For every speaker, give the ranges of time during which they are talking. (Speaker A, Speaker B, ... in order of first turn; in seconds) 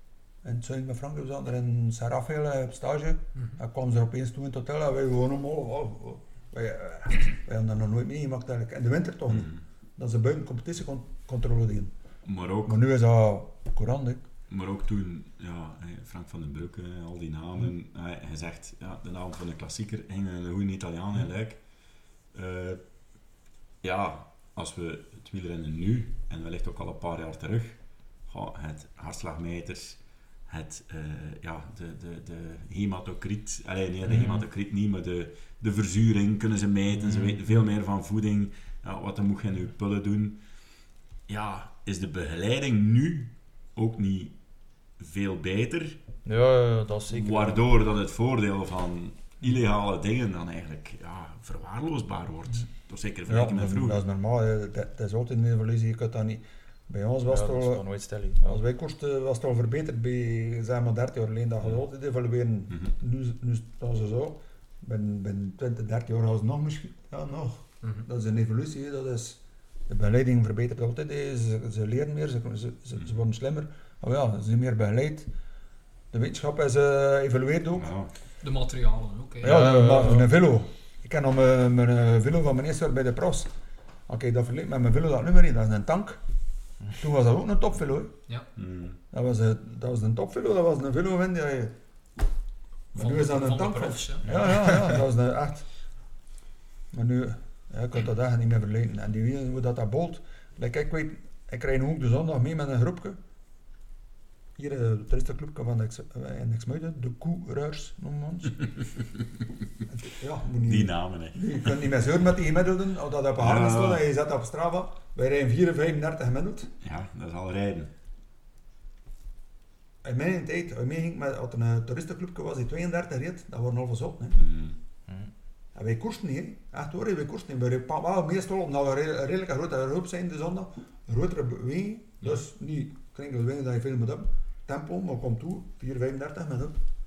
Speaker A: 0.4-11.9, 12.6-14.2, 53.3-57.8, 58.4-75.3, 76.1-77.9, 79.4-83.5, 84.1-86.2, 86.9-88.1, 89.1-91.7, 92.9-95.8, 96.9-103.2, 104.5-108.9, 109.9-116.7, 120.0-124.4, 125.7-136.8
Speaker B: 9.3-9.6, 12.2-12.8, 14.5-21.7, 22.2-22.8, 23.8-40.4, 41.3-44.4, 45.0-46.0, 47.1-54.0, 77.8-78.1, 88.5-89.0, 110.7-111.7, 113.4-114.0, 116.8-117.9, 124.3-124.8
Speaker C: 34.1-34.4, 37.0-37.4, 46.2-47.6, 57.3-58.6, 79.4-80.3, 94.2-94.7
Speaker D: 78.4-79.6, 92.9-95.0